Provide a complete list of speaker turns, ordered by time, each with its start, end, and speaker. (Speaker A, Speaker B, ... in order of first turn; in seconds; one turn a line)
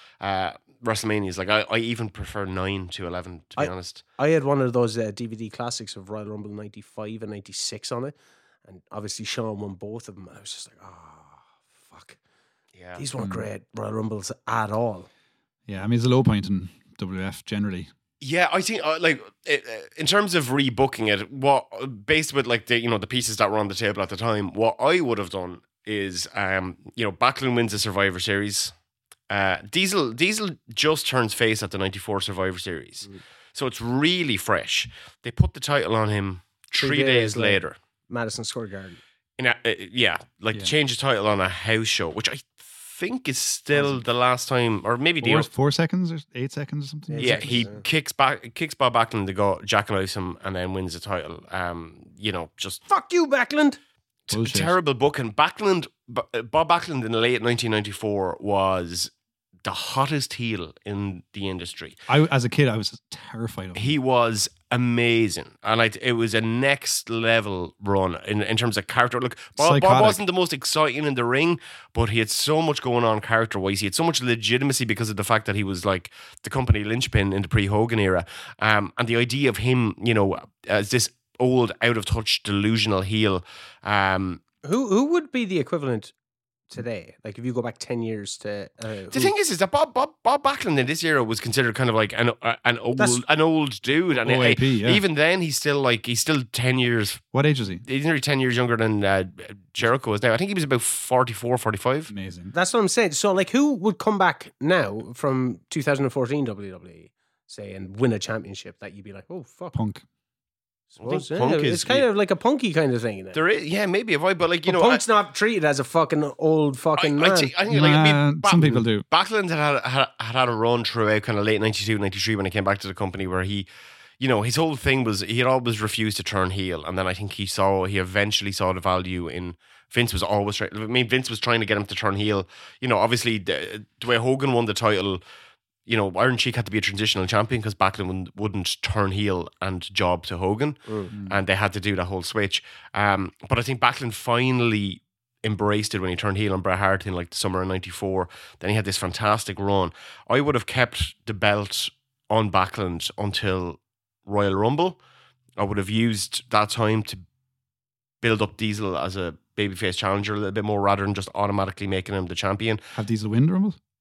Speaker A: 0.2-4.0
Speaker B: 3.6-8.1
Speaker B: 8.7-12.2
Speaker A: 12.8-13.0
Speaker B: 12.9-15.1
Speaker C: 13.2-13.4
Speaker C: 15.7-17.9
Speaker A: 18.2-28.7
Speaker A: 29.3-37.8
Speaker B: 36.8-39.0
Speaker A: 39.4-45.5
Speaker C: 45.2-47.6
Speaker B: 47.1-47.8
Speaker A: 47.2-52.8
Speaker B: 52.9-53.8
Speaker A: 54.3-59.1
Speaker C: 54.3-54.7
Speaker A: 59.6-62.0
Speaker C: 62.1-63.9
Speaker A: 63.8-84.4
Speaker C: 69.6-70.2
Speaker B: 84.6-86.1
Speaker B: 86.7-89.3
Speaker A: 89.1-97.2
Speaker C: 94.2-95.0
Speaker C: 97.3-97.8
Speaker A: 97.8-102.1
Speaker C: 102.1-102.5
Speaker B: 102.5-109.7
Speaker C: 109.7-110.0
Speaker A: 111.0-112.0
Speaker B: 111.0-113.4
Speaker A: 113.3-115.0
Speaker B: 114.7-117.5
Speaker A: 117.0-123.7
Speaker C: 117.7-119.0
Speaker A: 124.2-135.2
Speaker A: 135.8-155.0
Speaker C: 141.1-141.4
Speaker A: 155.6-157.2
Speaker A: 158.2-162.8
Speaker C: 162.9-163.8